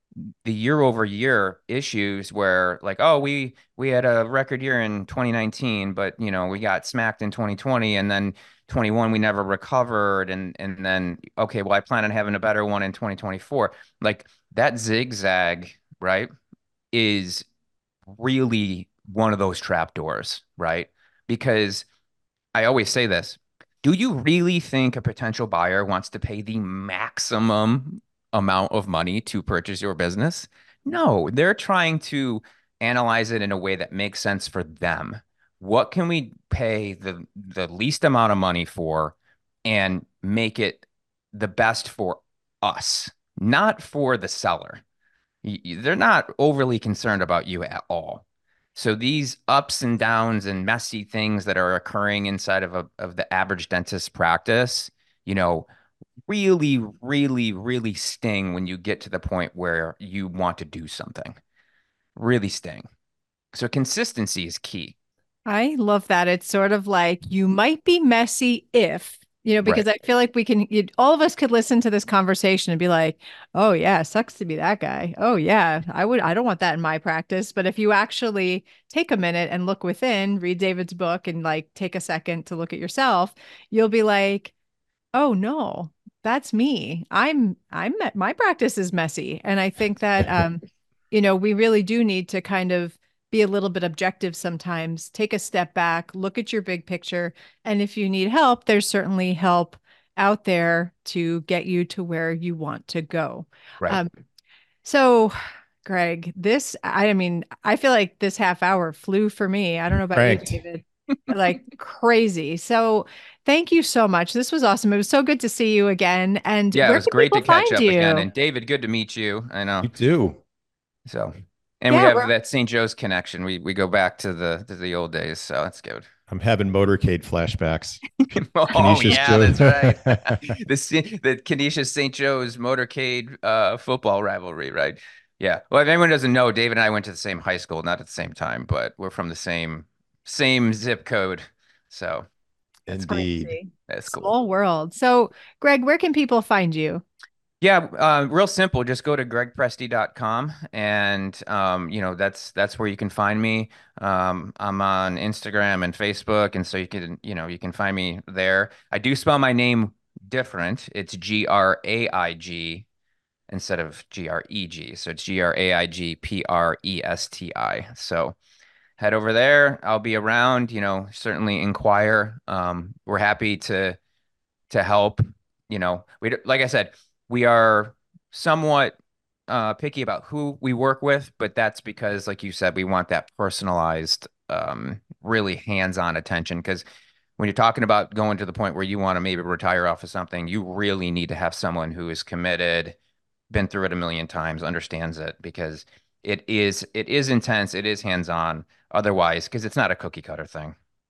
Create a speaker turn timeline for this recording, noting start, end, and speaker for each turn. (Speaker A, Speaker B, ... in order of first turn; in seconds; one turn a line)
Speaker A: 0.1-16.3
Speaker A: 16.9-17.4
Speaker A: 18.1-21.9
Speaker A: 22.5-44.8
Speaker A: 45.4-48.2
Speaker A: 48.7-55.6
Speaker A: 56.3-61.4
Speaker A: 62.1-62.8
Speaker A: 63.5-64.9
Speaker B: 65.5-84.5
Speaker B: 85.1-104.1
Speaker B: 104.8-118.3
Speaker C: 110.1-110.6
Speaker A: 116.7-119.9
Speaker C: 119.8-120.4
Speaker A: 121.1-126.0
Speaker B: 121.9-122.3
Speaker C: 126.3-128.0
Speaker A: 128.2-142.3
Speaker C: 128.7-130.6
Speaker C: 142.8-143.5
Speaker B: 142.9-147.0
Speaker A: 143.9-144.3
Speaker A: 147.6-162.8
Speaker A: 163.5-168.3
Speaker A: 169.0-174.0
Speaker A: 174.7-178.9
Speaker A: 179.5-186.8
Speaker A: 187.4-192.9
Speaker A: 193.5-200.8